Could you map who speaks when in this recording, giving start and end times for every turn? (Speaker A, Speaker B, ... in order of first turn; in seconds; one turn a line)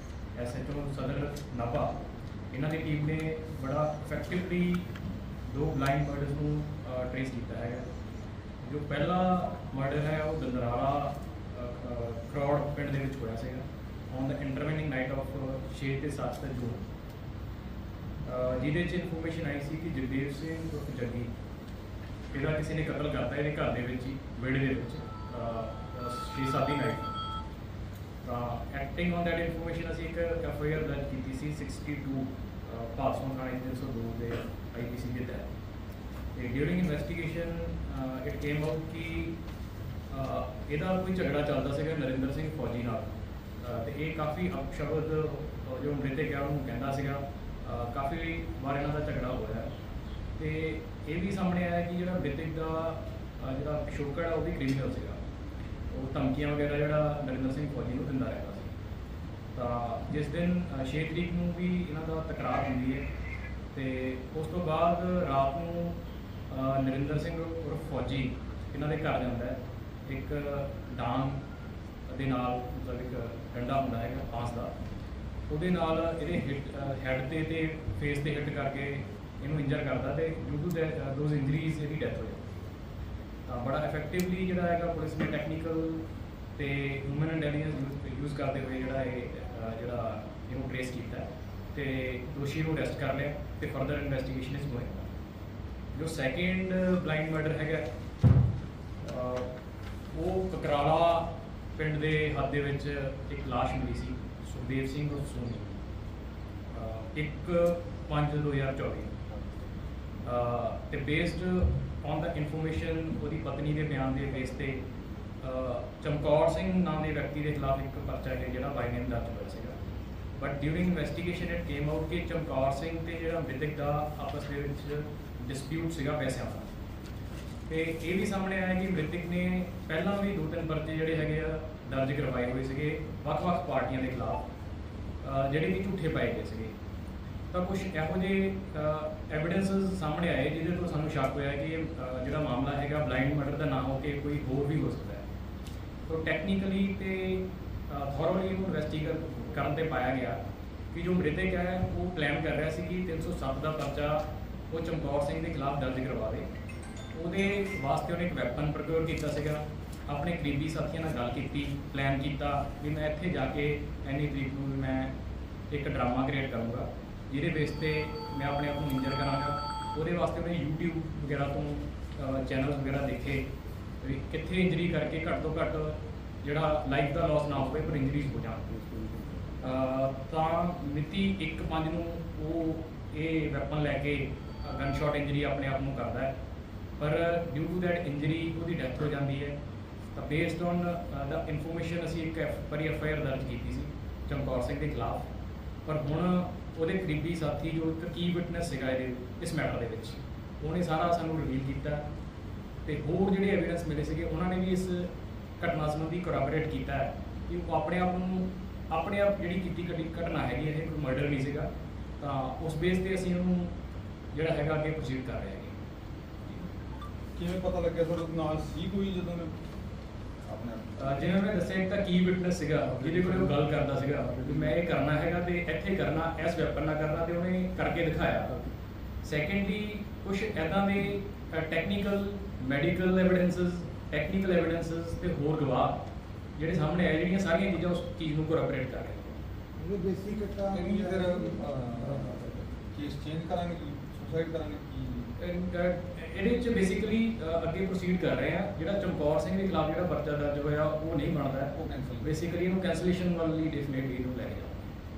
Speaker A: 0.3-2.0
Speaker A: 2.5-4.9
Speaker A: 5.5-7.8
Speaker A: 8.6-16.9
Speaker A: 18.2-21.3
Speaker A: 22.3-27.1
Speaker A: 28.2-35.5
Speaker A: 36.3-39.4
Speaker A: 40.1-49.7
Speaker A: 50.4-55.2
Speaker A: 55.9-58.7
Speaker A: 59.5-63.0
Speaker A: 63.7-71.4
Speaker A: 72.1-74.7
Speaker A: 75.5-82.5
Speaker A: 83.5-95.1
Speaker A: 95.9-97.9
Speaker A: 99.0-99.5
Speaker A: 100.1-105.7
Speaker A: 106.7-109.3
Speaker A: 110.2-114.8
Speaker A: 115.4-119.8
Speaker A: 120.4-126.7
Speaker A: 127.7-134.4
Speaker A: 135.2-136.7
Speaker A: 137.5-145.2
Speaker A: 146.1-150.4
Speaker A: 150.9-156.5
Speaker A: 157.1-165.1
Speaker A: 165.7-173.5
Speaker A: 174.0-178.8
Speaker B: 178.7-179.3
Speaker A: 179.6-186.3
Speaker A: 187.0-189.5
Speaker A: 190.1-195.3
Speaker A: 195.8-202.0
Speaker A: 202.8-211.7
Speaker A: 212.2-213.7
Speaker A: 214.3-215.7
Speaker C: 217.3-219.6
Speaker C: 220.4-221.1
Speaker A: 221.0-228.6
Speaker B: 223.0-223.6
Speaker B: 224.3-224.7
Speaker A: 229.2-236.0
Speaker A: 236.6-239.4
Speaker B: 239.8-242.5
Speaker C: 240.7-245.3
Speaker A: 245.4-254.9
Speaker C: 251.7-252.3